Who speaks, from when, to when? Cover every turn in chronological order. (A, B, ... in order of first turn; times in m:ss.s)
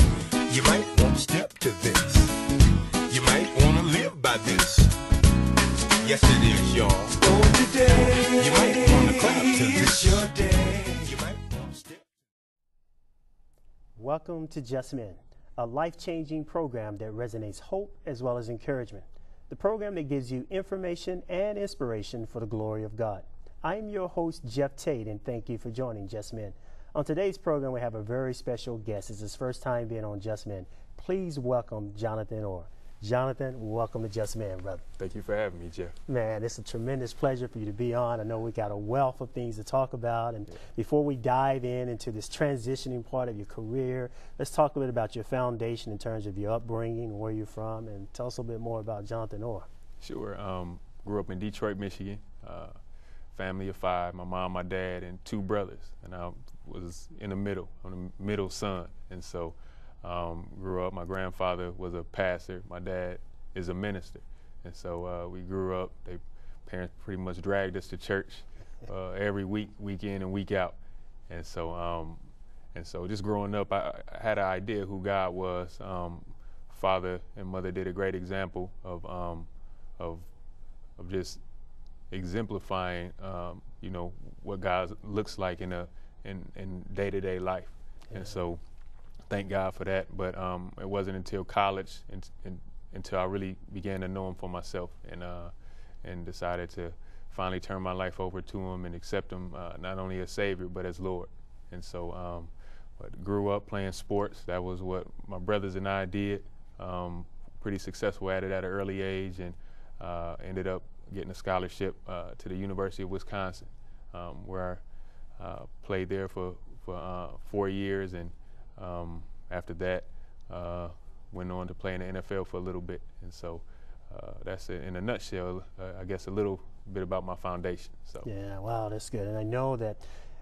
0:00.5-0:02.3 A
0:01.0-0:01.3 B
0:03.1-0:04.9 A
0:03.3-0:04.0 B
0:06.0-0:07.2 A
0:07.3-0:12.0 B
0:08.5-0:10.3 A
0:11.0-0:11.4 A
0:14.0-0:34.8 C
0:35.0-0:35.9 A
0:36.1-0:49.7 C
0:50.0-0:52.7 A
0:53.3-1:10.8 A
1:11.3-1:12.2 A
1:12.7-1:19.5 A
1:20.0-1:20.3 A
1:21.0-1:21.4 A
1:22.1-1:28.6 A
1:29.3-1:35.5 A
1:36.0-1:54.8 A
1:55.4-2:08.3 A
2:08.2-2:10.0 C